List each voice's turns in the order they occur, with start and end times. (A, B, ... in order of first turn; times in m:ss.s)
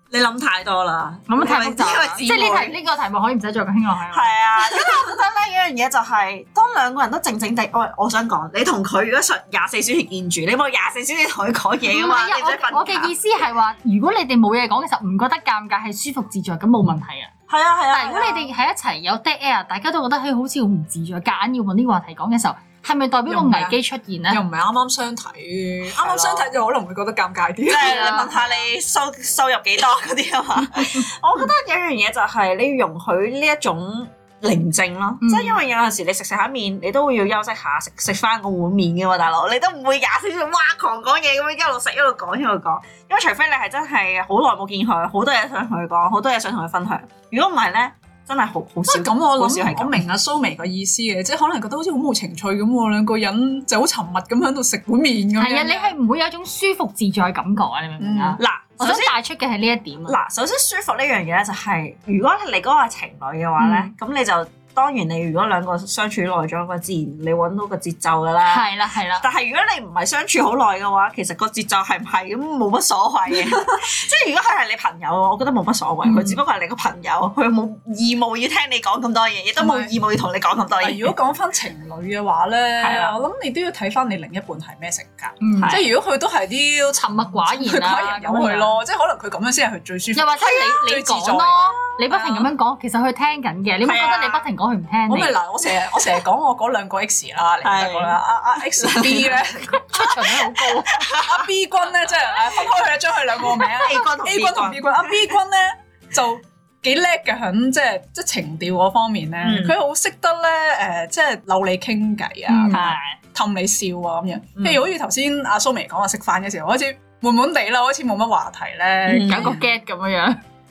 0:00.1-0:02.7 A
0:01.3-0:04.3 B
0:04.1-0:13.1 A
0:11.8-0:17.3 B
0:17.5-0:18.5 A
0:17.9-0:24.4 B
0:23.3-0:23.8 C
0:24.3-0:28.1 C
0:26.0-0:26.5 A
0:27.6-0:50.0 A
0:27.7-0:28.4 B
0:35.2-0:35.6 B
0:48.9-0:55.9 C
0:55.4-1:00.2 B
0:58.0-0:58.4 C
0:58.4-0:59.2 A
1:00.0-1:21.1 A
1:03.6-1:03.9 B
1:08.4-1:09.2 B
1:16.0-1:16.4 B
1:19.6-1:19.9 C
1:20.8-1:32.5 C
1:22.8-1:23.2 A
1:25.4-1:25.8 B
1:25.6-1:25.9 A
1:27.0-1:28.8 B
1:30.1-1:35.4 B
1:33.8-1:34.4 A
1:35.1-1:39.8 C
1:37.6-1:38.2 A
1:38.7-1:41.4 A
1:39.7-1:41.1 B
1:41.1-1:59.6 C
1:43.5-1:45.3 A
1:49.4-1:49.8 A
1:52.5-1:53.0 B
1:52.7-1:53.0 A
1:54.6-1:54.8 A
1:59.0-1:59.6 A
1:59.2-2:00.4 B